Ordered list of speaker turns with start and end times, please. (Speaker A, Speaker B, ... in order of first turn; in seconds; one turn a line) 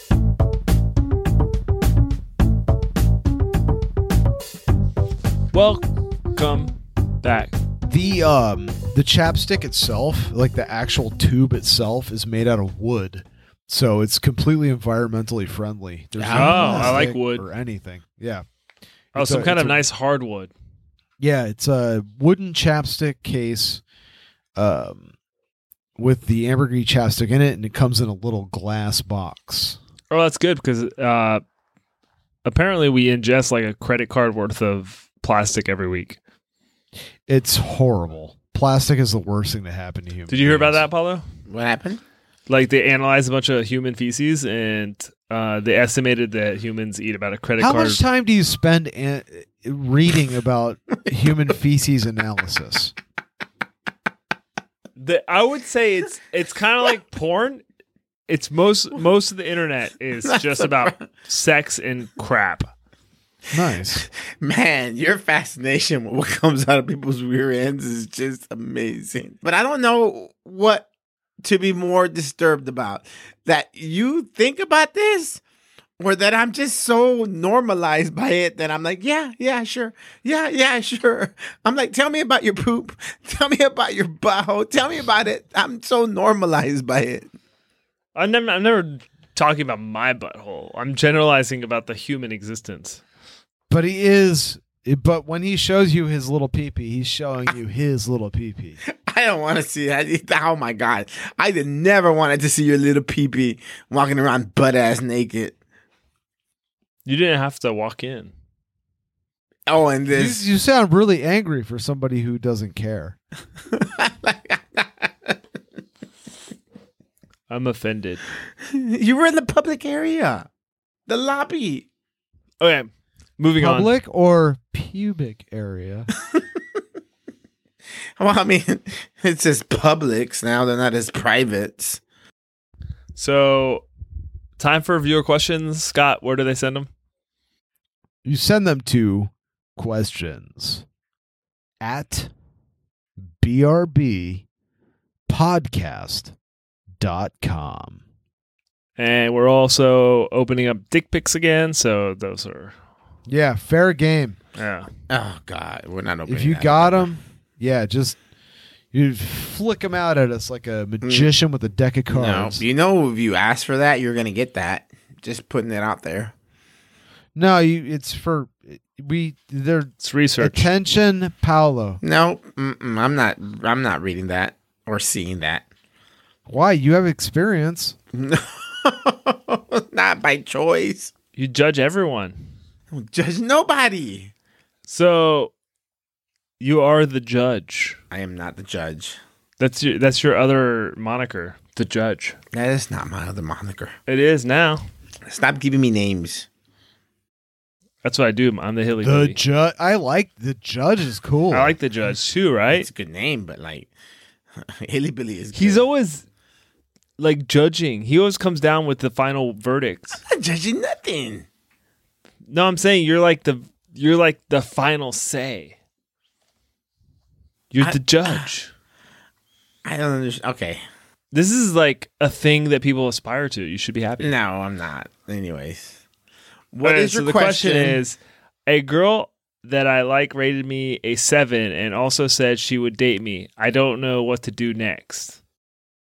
Speaker A: 5.5-7.5
Speaker B: 7.9-18.4
Speaker C: 16.2-17.1
Speaker A: 16.3-17.5
Speaker B: 19.1-19.8
Speaker A: 19.1-20.5
Speaker B: 21.2-23.8
Speaker B: 24.6-25.1
Speaker B: 26.0-29.8
Speaker A: 30.1-31.4
Speaker A: 32.5-36.2
Speaker B: 37.3-40.8
Speaker A: 40.3-41.2
Speaker C: 41.5-42.0
Speaker A: 42.5-48.0
Speaker B: 47.6-52.9
Speaker A: 55.0-57.6
Speaker A: 58.3-62.7
Speaker C: 60.2-61.0
Speaker B: 63.5-64.1
Speaker C: 64.0-70.9
Speaker C: 71.4-75.4
Speaker C: 76.0-87.3
Speaker A: 88.2-93.0
Speaker B: 93.7-98.8
Speaker C: 98.9-105.6
Speaker A: 107.1-108.3
Speaker C: 109.7-110.4
Speaker B: 110.1-113.2
Speaker C: 113.7-115.4
Speaker A: 117.5-118.2
Speaker C: 118.6-120.5
Speaker C: 121.1-121.9
Speaker A: 122.6-123.9
Speaker B: 123.6-126.1
Speaker C: 128.2-132.0
Speaker A: 133.2-133.9
Speaker A: 134.6-136.9
Speaker B: 138.2-140.8
Speaker B: 141.8-142.3
Speaker B: 143.4-144.4
Speaker B: 145.3-146.3
Speaker B: 147.0-148.0
Speaker A: 149.0-152.8
Speaker B: 153.3-154.4
Speaker A: 154.6-154.9
Speaker C: 155.1-157.1
Speaker B: 156.3-158.2
Speaker B: 158.9-162.6
Speaker C: 161.0-161.3
Speaker C: 162.1-166.3
Speaker B: 167.3-172.0
Speaker A: 170.0-170.7
Speaker C: 172.0-175.7
Speaker B: 176.5-178.0
Speaker C: 178.1-181.1
Speaker A: 181.4-182.4
Speaker C: 182.9-184.3
Speaker A: 184.9-185.5
Speaker A: 186.6-188.0
Speaker C: 188.1-189.2
Speaker A: 189.6-192.4
Speaker C: 192.5-193.9
Speaker A: 194.1-194.8
Speaker C: 195.3-196.5
Speaker A: 198.0-199.4
Speaker B: 199.0-201.8
Speaker A: 201.5-202.9
Speaker C: 202.7-203.9
Speaker C: 204.6-205.8
Speaker A: 205.5-206.2
Speaker A: 207.2-210.2
Speaker C: 210.3-211.5
Speaker A: 212.5-215.8
Speaker A: 217.7-218.7
Speaker C: 217.8-218.5
Speaker C: 219.8-220.8
Speaker A: 221.3-224.3
Speaker C: 224.2-226.0
Speaker C: 226.7-228.0
Speaker A: 226.8-235.4